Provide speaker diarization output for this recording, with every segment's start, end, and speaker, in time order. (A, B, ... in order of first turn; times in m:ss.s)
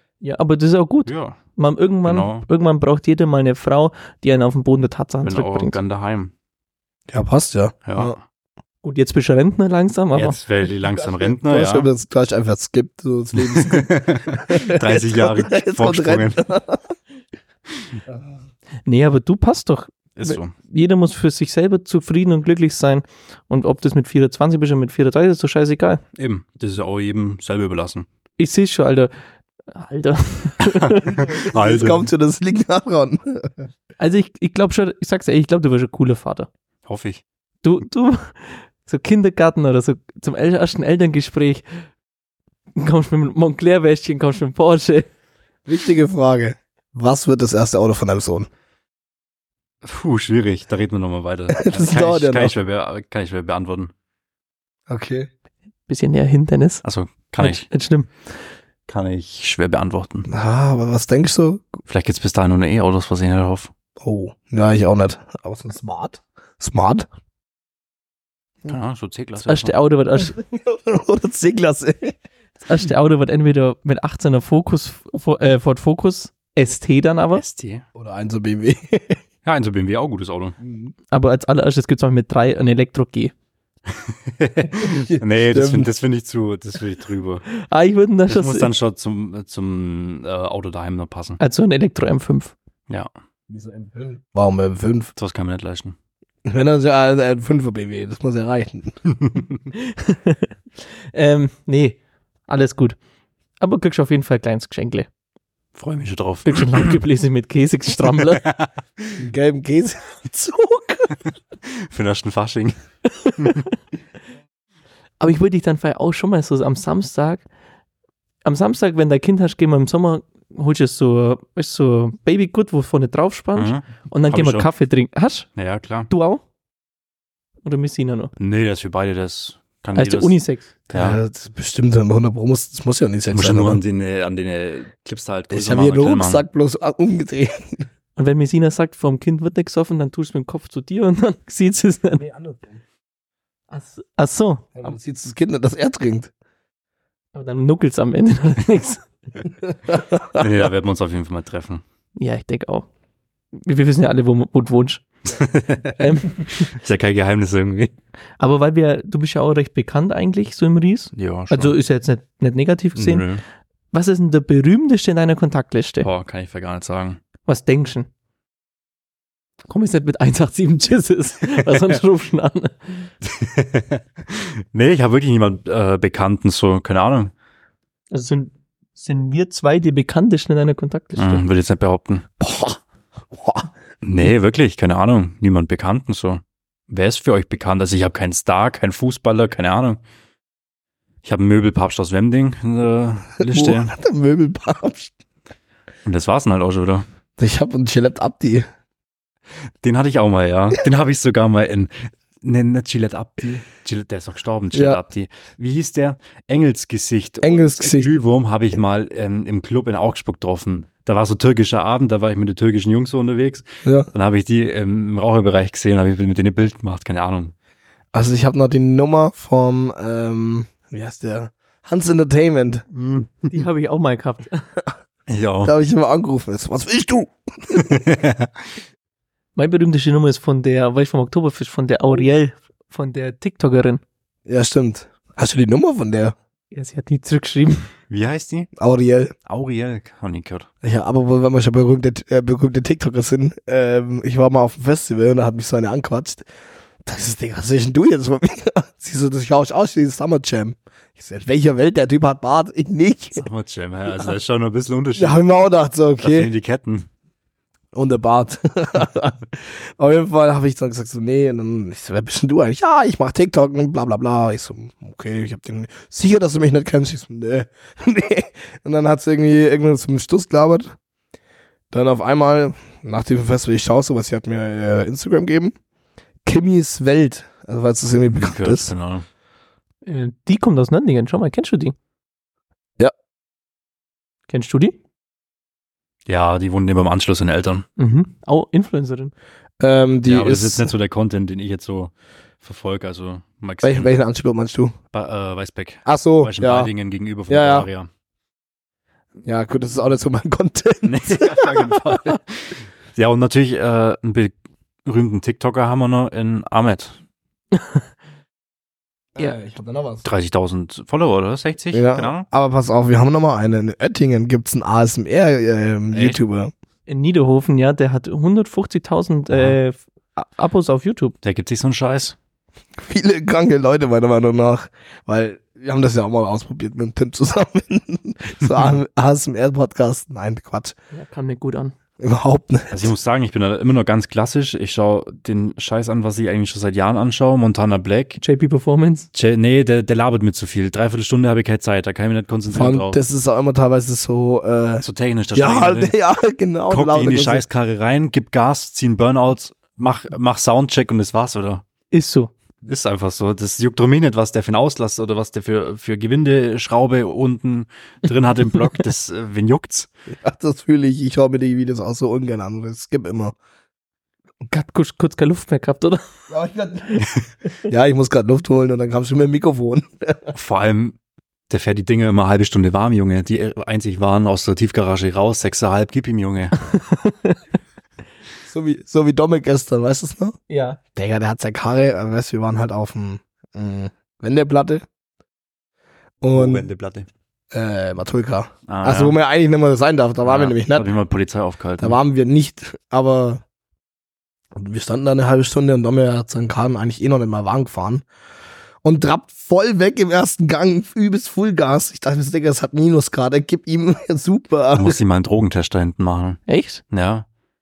0:00.2-0:05.8 A
0:01.0-0:01.4 B
0:02.0-0:02.4 B
0:05.2-0:06.3 B
0:07.1-0:08.1 C
0:07.8-0:08.2 B
0:08.8-0:10.4 A
0:10.1-0:11.9 B
0:11.0-0:17.0 C
0:13.4-0:16.4 B
0:18.8-0:26.0 A
0:20.2-0:20.5 B
0:26.2-0:28.0 B
0:28.4-0:29.1 A
0:29.7-0:31.2 A
0:30.6-0:32.1 B
0:31.1-0:33.5 C
0:34.0-0:36.5 A
0:36.8-0:37.2 B
0:37.6-0:41.6 A
0:42.8-0:45.1 A
0:45.6-0:48.5 C
0:49.8-0:53.9 B
0:51.5-0:52.5 C
0:54.9-0:55.3 C
0:55.9-0:56.8 A
0:56.8-0:57.6 B
0:57.4-0:58.1 A
0:58.9-1:00.3 B
1:00.3-1:01.8 C
1:01.9-1:03.7 B
1:04.0-1:07.1 C
1:08.6-1:09.7 B
1:09.4-1:10.4 A
1:10.2-1:12.2 C
1:12.6-1:17.4 A
1:17.3-1:17.8 B
1:17.9-1:19.2 C
1:19.4-1:20.6 B
1:20.6-1:20.9 C
1:21.1-1:23.3 A
1:23.9-1:27.4 B
1:24.8-1:25.9 C
1:27.5-1:28.7 A
1:28.3-1:31.4 B
1:31.4-1:32.5 A
1:33.5-1:35.1 C
1:35.2-1:36.0 B
1:36.4-1:39.0 C
1:39.7-1:40.5 A
1:41.1-1:43.0 A
1:43.6-1:45.1 A
1:45.7-1:47.0 B
1:46.4-1:48.4 A
1:48.3-1:49.2 B
1:49.2-1:51.2 C
1:51.6-1:52.8 B
1:53.1-1:53.7 A
1:55.2-1:57.4 A
1:58.4-2:05.5 A
2:03.6-2:04.7 B
2:05.6-2:06.1 B
2:06.1-2:06.4 A
2:07.6-2:08.3 A
2:08.4-2:10.4 B
2:10.0-2:10.7 A
2:10.9-2:11.2 B
2:10.9-2:13.8 C
2:13.3-2:16.4 B
2:15.5-2:17.8 C
2:18.2-2:22.2 A
2:22.2-2:22.8 C
2:23.7-2:24.8 A
2:24.8-2:26.3 C
2:27.3-2:29.0 A
2:29.7-2:30.4 C
2:30.3-2:31.8 B
2:32.2-2:32.9 A
2:33.5-2:35.0 A
2:35.3-2:36.0 B
2:36.0-2:36.7 A
2:36.6-2:37.9 B
2:38.4-2:43.2 A
2:41.1-2:41.8 B
2:43.0-2:43.4 B
2:43.9-2:46.1 A
2:46.0-2:47.2 B
2:47.4-2:48.1 A
2:49.7-2:53.1 A
2:53.2-2:57.3 B
2:58.1-3:01.4 A
3:01.2-3:02.3 B
3:02.4-3:02.8 C
3:03.3-3:03.7 C
3:04.0-3:10.0 B
3:11.2-3:13.9 B
3:13.4-3:15.1 C
3:16.0-3:17.0 B
3:17.4-3:18.7 C
3:19.8-3:37.5 B
3:24.7-3:25.0 C
3:27.4-3:28.1 C
3:38.1-3:42.8 C
3:42.9-3:43.5 B
3:43.5-3:44.6 A
3:45.3-3:45.7 B
3:45.6-3:48.0 C
3:47.7-3:48.5 B
3:49.6-3:54.0 A
3:54.4-3:56.4 C
3:56.7-3:57.9 A
3:58.1-3:58.7 B
3:58.8-3:59.3 C
3:59.5-4:00.7 B
4:00.8-4:06.4 C
4:07.0-4:13.4 C
4:13.4-4:15.4 B
4:15.2-4:16.5 C
4:16.2-4:17.1 B
4:17.9-4:30.9 C
4:31.9-4:35.7 C
4:36.4-4:38.9 C
4:38.4-4:39.2 B
4:40.0-4:41.9 A
4:44.5-4:45.0 A
4:46.3-4:47.8 B
4:48.0-4:49.3 A
4:49.8-4:50.9 C
4:50.2-4:52.1 B
4:52.6-4:54.1 B
4:53.8-4:54.9 C
4:55.1-4:58.1 B
4:56.0-4:56.9 C
4:57.5-4:57.9 C
4:59.4-5:02.2 C
5:01.0-5:04.5 B
5:05.0-5:07.2 B
5:07.7-5:08.0 A
5:09.4-5:10.2 C
5:10.2-5:12.5 B
5:11.9-5:16.7 C
5:16.1-5:16.4 B
5:17.1-5:21.3 A
5:19.5-5:19.8 B
5:21.4-5:22.4 B
5:23.0-5:30.9 C
5:31.1-5:31.9 A
5:32.2-5:33.1 C
5:32.9-5:38.4 B
5:38.4-5:39.3 A
5:39.3-5:43.2 B
5:42.7-5:47.6 C
5:45.0-5:46.1 B
5:46.9-5:51.8 B
5:52.1-5:52.5 A
5:52.8-6:00.1 B
6:00.4-6:03.5 C
6:04.7-6:06.2 A
6:06.5-6:07.3 C
6:07.9-6:10.5 C
6:10.5-6:11.2 B
6:11.7-6:16.8 B
6:16.9-6:17.6 A
6:18.6-6:20.6 C
6:20.7-6:21.0 A
6:21.2-6:25.0 C
6:26.4-6:26.9 C
6:26.5-6:27.3 B
6:27.7-6:31.1 C
6:28.9-6:29.4 B
6:30.4-6:32.2 B
6:32.0-6:33.6 C
6:34.7-6:38.2 C
6:39.0-6:45.2 C
6:44.9-6:47.4 B
6:46.7-6:47.0 A